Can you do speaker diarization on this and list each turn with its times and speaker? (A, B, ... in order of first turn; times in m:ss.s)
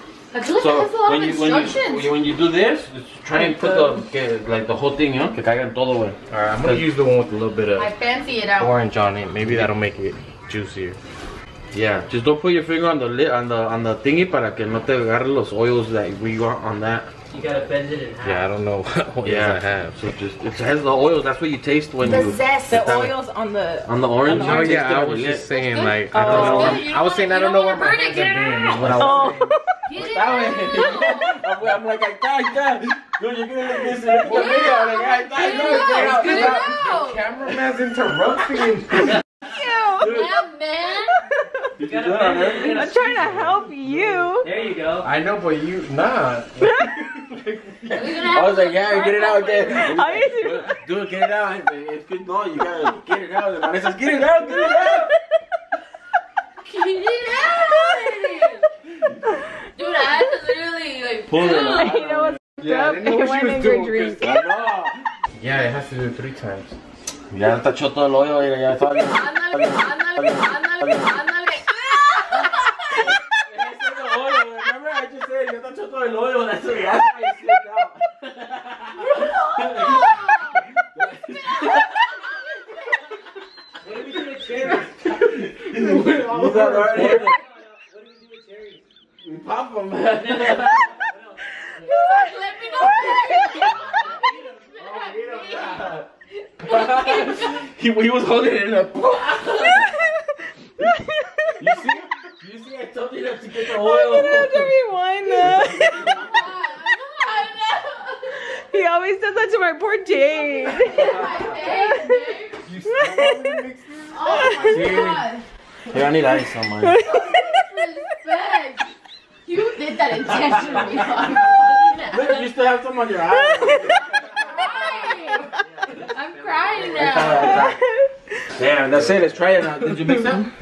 0:00.3-0:02.1 A
0:00.5-0:06.9 B
0:03.6-0:03.9 C
0:06.3-0:07.9 D
0:07.8-0:08.8 A
0:08.6-0:11.0 D
0:09.4-0:09.7 B
0:11.7-0:17.1 B
0:17.3-0:18.5 C
0:18.2-0:20.0 D
0:19.2-0:23.2 B
0:22.1-0:24.9 E
0:22.1-0:22.5 A
0:23.8-0:25.5 B
0:24.3-0:29.5 D
0:25.5-0:29.1 A
0:26.1-0:26.8 E
0:26.3-0:26.8 B
0:28.7-0:29.3 B
0:29.0-0:29.5 E
0:29.9-0:31.4 A
0:30.0-0:36.7 B
0:34.2-0:37.3 A
0:34.3-0:34.6 D
0:35.4-0:39.2 D
0:39.4-0:40.3 E
0:40.0-0:41.2 A
0:41.8-0:43.0 B
0:41.8-0:43.6 C
0:42.6-0:44.5 E
0:44.2-0:45.1 C
0:45.0-0:48.1 D
0:47.9-0:49.9 A
0:48.2-0:55.1 B
0:49.7-0:50.7 E
0:56.6-0:58.7 A
0:59.8-1:01.9 A
1:01.3-1:02.4 B
1:01.4-1:04.4 E
1:02.6-1:04.3 D
1:04.2-1:05.0 B
1:05.4-1:06.8 D
1:07.3-1:11.1 B
1:09.0-1:12.7 A
1:13.0-1:22.2 B
1:19.7-1:20.6 A
1:23.8-1:25.1 C
1:24.6-1:27.4 B
1:25.8-1:27.0 D
1:26.2-1:28.8 C
1:29.2-1:31.0 B
1:31.1-1:32.0 C
1:31.8-1:36.0 A
1:33.6-1:35.0 C
1:34.8-1:36.1 B
1:36.6-1:40.0 B
1:36.7-1:37.3 A
1:40.8-1:41.6 E
1:41.6-1:44.8 B
1:43.7-1:46.2 E
1:45.4-1:46.3 B
1:45.8-1:48.4 A
1:48.3-1:51.3 E
1:50.5-1:52.7 A
1:52.7-1:54.7 D
1:53.0-1:53.7 E
1:54.1-1:55.5 A
1:54.6-1:55.2 B
1:55.9-1:57.0 B
1:56.9-1:57.3 E
1:57.0-1:58.9 A
1:59.4-2:02.5 A
2:00.6-2:00.8 B
2:01.8-2:04.4 B
2:04.3-2:07.7 A
2:05.5-2:07.0 C
2:06.8-2:07.8 B
2:07.4-2:08.1 E
2:08.6-2:10.5 B